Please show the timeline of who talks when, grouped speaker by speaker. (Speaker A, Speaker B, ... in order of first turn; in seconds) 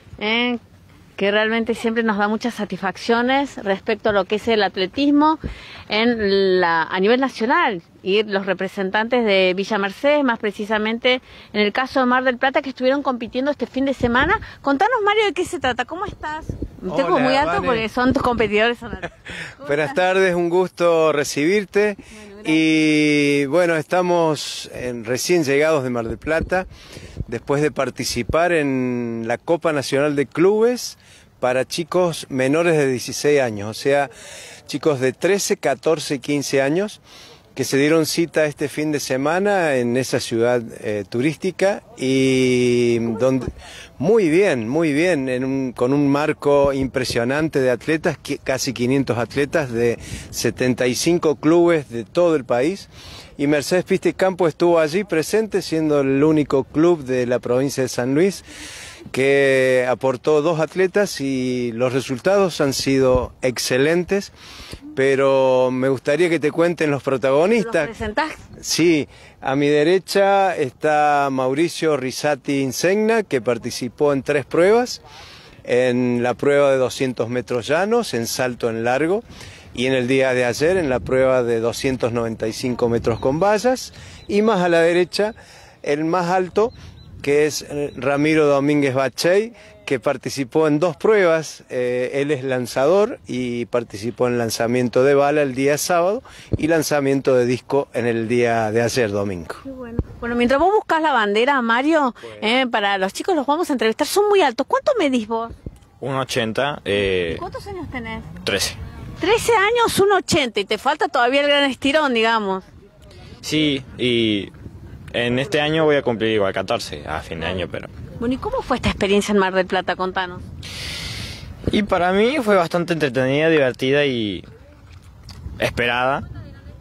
Speaker A: 0.2-0.6, 1.2-19.9, 22.2-22.5, 67.6-68.4, 99.6-105.5, 107.3-108.3, 109.2-112.7, 118.2-120.4
Speaker B: 16.9-17.8, 19.6-26.7, 27.2-34.1, 34.7-37.0, 37.5-58.5, 59.1-64.3, 64.9-67.9, 68.6-75.0, 75.6-99.6
Speaker C: 106.0-107.4, 108.4-108.8, 113.4-114.5, 115.1-117.9, 121.7-124.5, 125.6-126.2